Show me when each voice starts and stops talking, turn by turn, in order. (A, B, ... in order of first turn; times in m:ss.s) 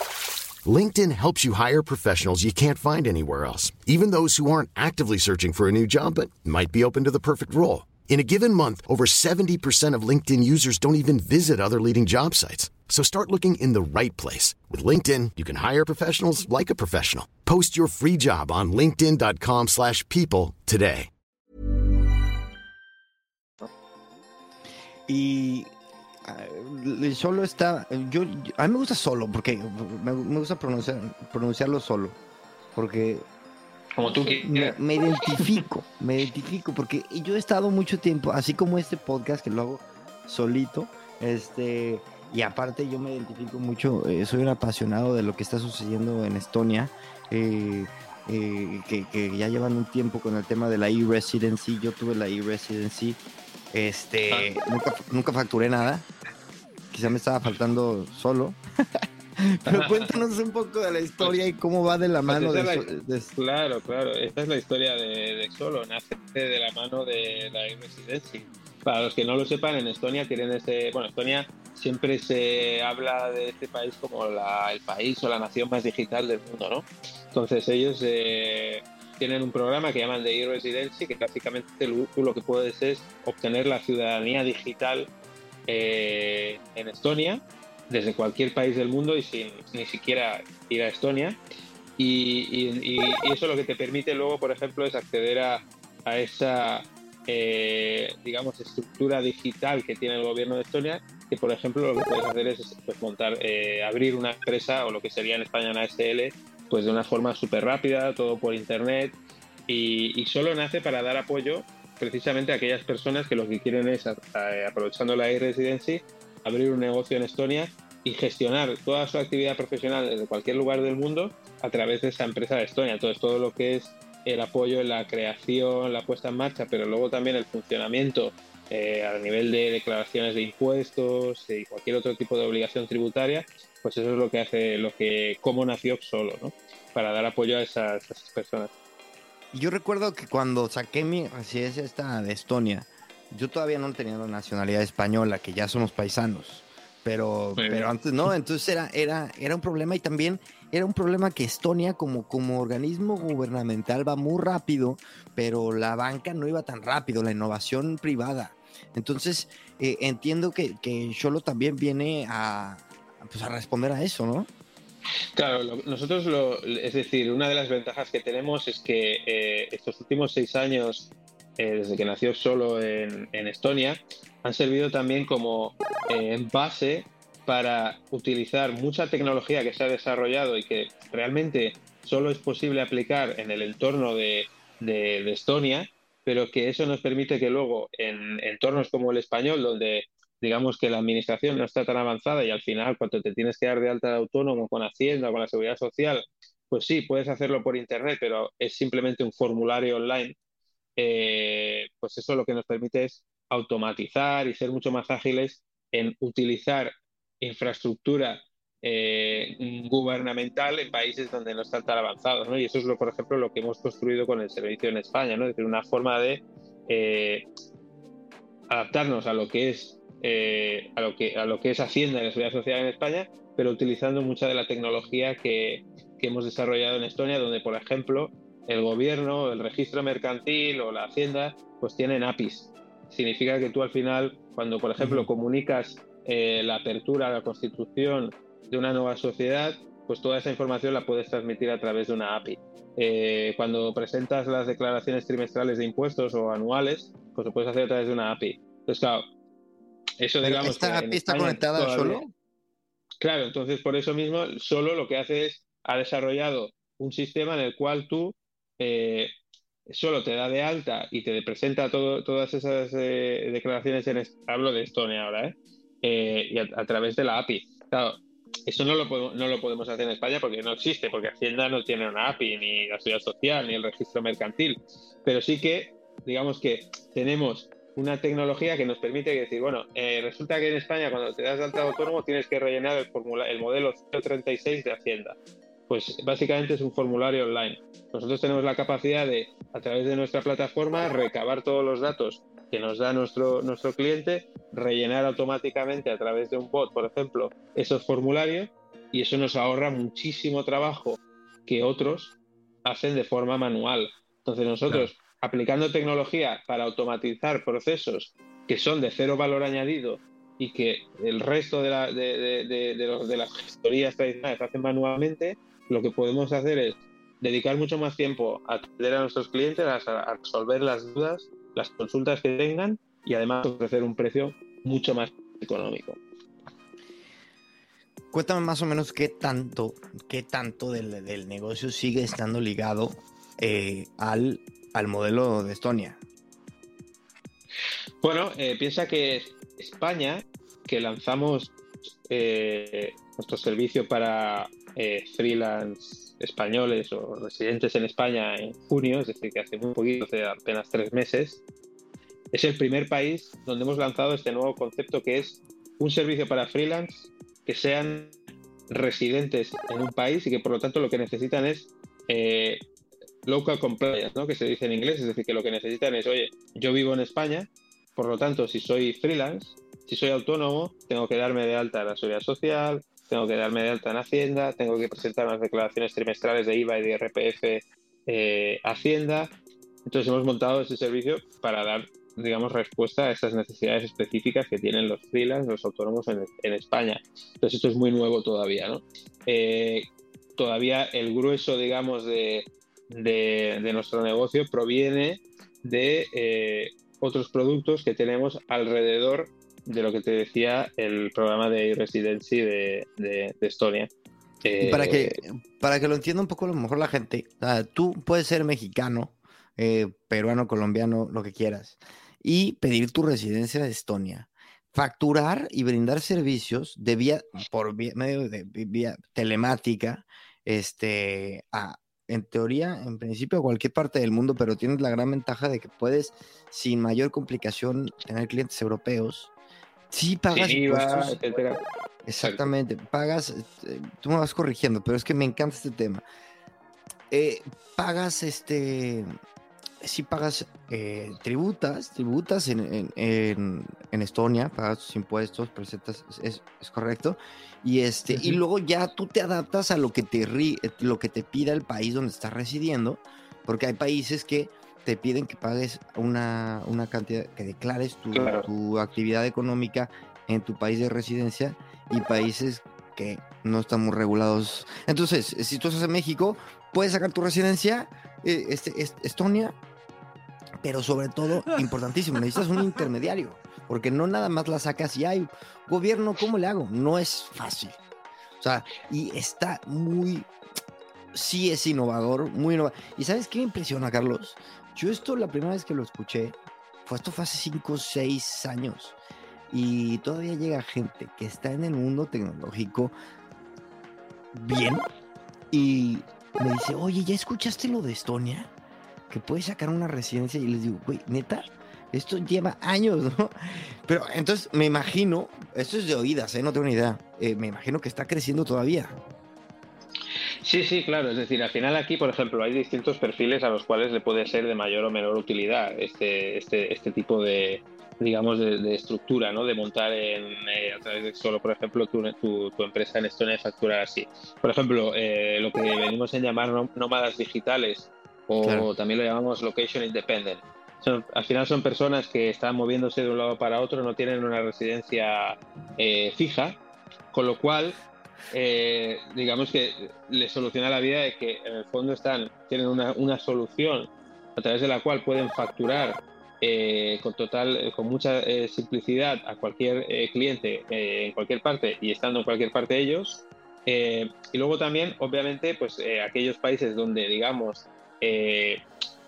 0:00.6-0:21.1 A
0:25.1-0:25.7 B
0:26.2-0:32.2 B
0:32.8-0:33.3 B
0:34.0-0:34.8 C
0:34.1-0:53.2 B
0:35.3-0:35.6 C
0:53.7-0:56.1 B
0:56.9-1:03.3 B
0:59.7-1:00.2 C
1:01.2-1:01.5 C
1:02.3-1:25.1 C
1:25.7-1:31.4 C
1:32.0-1:49.2 C
1:49.7-2:18.8 C
2:19.5-2:44.5 B
2:27.6-2:27.9 C
2:45.4-3:20.4 C
3:21.0-3:37.5 C
3:38.7-4:09.3 C
3:55.0-3:55.3 B
4:10.2-4:12.2 C
4:10.4-4:12.3 B
4:13.2-4:19.3 C
4:19.9-4:45.4 C
4:45.9-5:26.2 C
5:28.3-5:36.2 B
5:38.2-5:41.8 C
5:42.3-5:51.6 C
5:52.5-5:58.4 C
5:58.9-6:02.8 C
6:03.5-6:19.5 C
6:20.1-6:44.1 C
6:44.6-6:45.4 C
6:44.8-7:09.5 B
7:10.1-7:11.4 B
7:10.5-7:11.8 C
7:12.2-7:16.2 B
7:12.4-7:12.7 C
7:17.3-7:19.3 B
7:20.0-7:49.8 B
7:28.3-7:28.6 C
7:38.3-7:38.7 C
7:50.8-7:58.0 B
7:58.6-8:00.5 B
8:01.3-8:09.2 B
8:09.7-8:13.1 B
8:14.5-8:15.1 B
8:15.7-8:18.7 B
8:19.3-8:29.2 B
8:30.6-8:56.8 C
8:48.6-8:48.9 B
8:57.3-8:58.0 C
8:58.5-9:18.8 C